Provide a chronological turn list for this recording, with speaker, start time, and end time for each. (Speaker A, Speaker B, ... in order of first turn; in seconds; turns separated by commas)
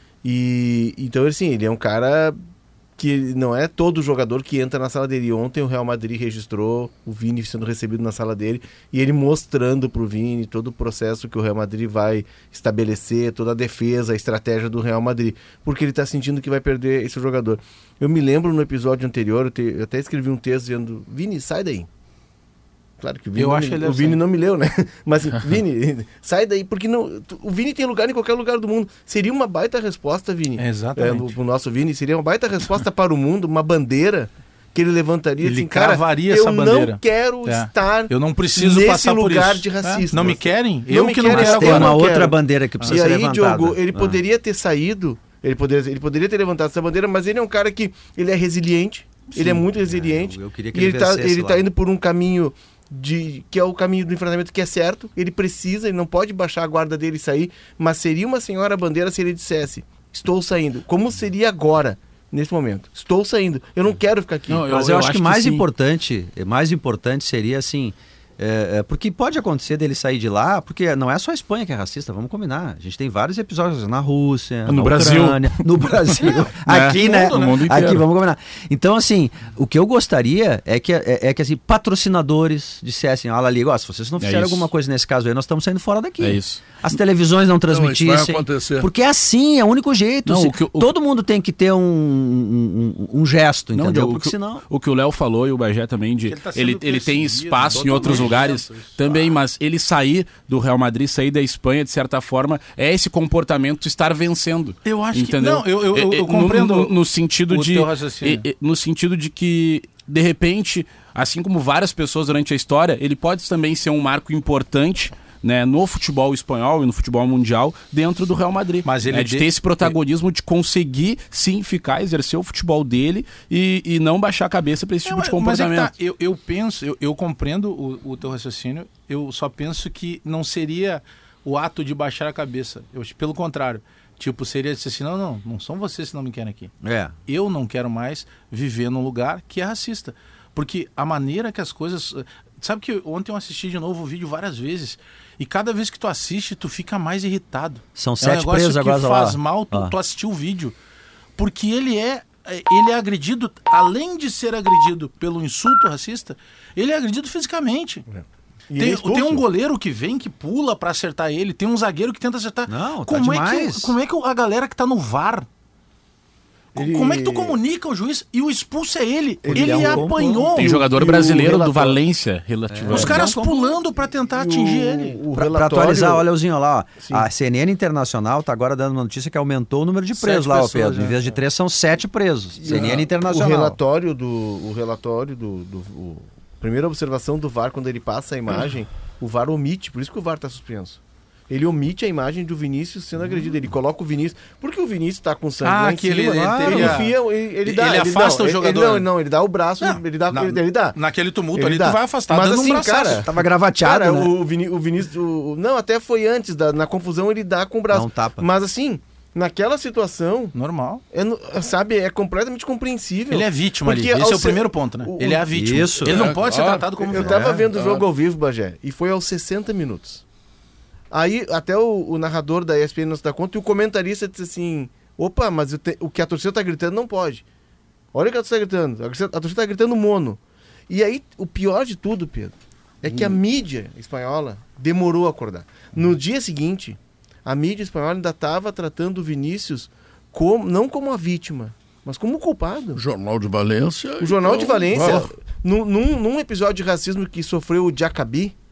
Speaker A: 0.2-2.4, Speaker A: 3.0-21.9, Speaker A: 23.0-64.7, Speaker B: 23.4-24.2, Speaker B: 30.6-31.3, Speaker B: 35.4-42.0, Speaker C: 41.3-44.2, Speaker C: 49.3-51.7, Speaker D: 64.5-65.7, Speaker C: 64.7-94.6, Speaker D: 74.7-78.0, Speaker B: 76.9-77.5, Speaker D: 84.2-84.7, Speaker D: 86.2-86.8, Speaker E: 87.7-88.9, Speaker D: 90.2-90.9, Speaker D: 93.7-125.9, Speaker B: 96.2-99.0, Speaker C: 97.7-98.5, Speaker B: 104.8-108.5, Speaker B: 118.8-119.9, Speaker B: 125.0-136.7, Speaker C: 136.8-137.2, Speaker B: 137.2-150.7, Speaker C: 147.9-149.9, Speaker B: 151.4-158.1, Speaker A: 158.1-159.4, Speaker B: 158.8-165.5, Speaker C: 162.7-163.9, Speaker A: 166.7-167.6, Speaker B: 166.7-170.8, Speaker C: 169.4-170.8, Speaker A: 169.5-171.9, Speaker D: 170.6-173.3, Speaker C: 172.7-173.7, Speaker B: 172.9-175.2, Speaker A: 174.3-176.3, Speaker C: 175.3-183.8, Speaker A: 177.0-177.2, Speaker B: 180.2-181.2, Speaker A: 182.6-201.0, Speaker B: 182.7-183.0, Speaker B: 195.6-197.1, Speaker C: 196.7-196.9, Speaker B: 197.6-199.1, Speaker B: 200.3-203.2, Speaker A: 201.5-210.5, Speaker C: 202.8-204.3, Speaker C: 207.9-208.5, Speaker B: 210.5-211.0, Speaker A: 211.1-215.5, Speaker B: 213.3-217.6, Speaker C: 215.5-216.3, Speaker E: 216.0-218.0, Speaker A: 217.0-220.2, Speaker A: 221.1-227.4, Speaker A: 228.1-243.0, Speaker E: 233.1-233.4, Speaker E: 242.9-245.3, Speaker A: 244.2-248.6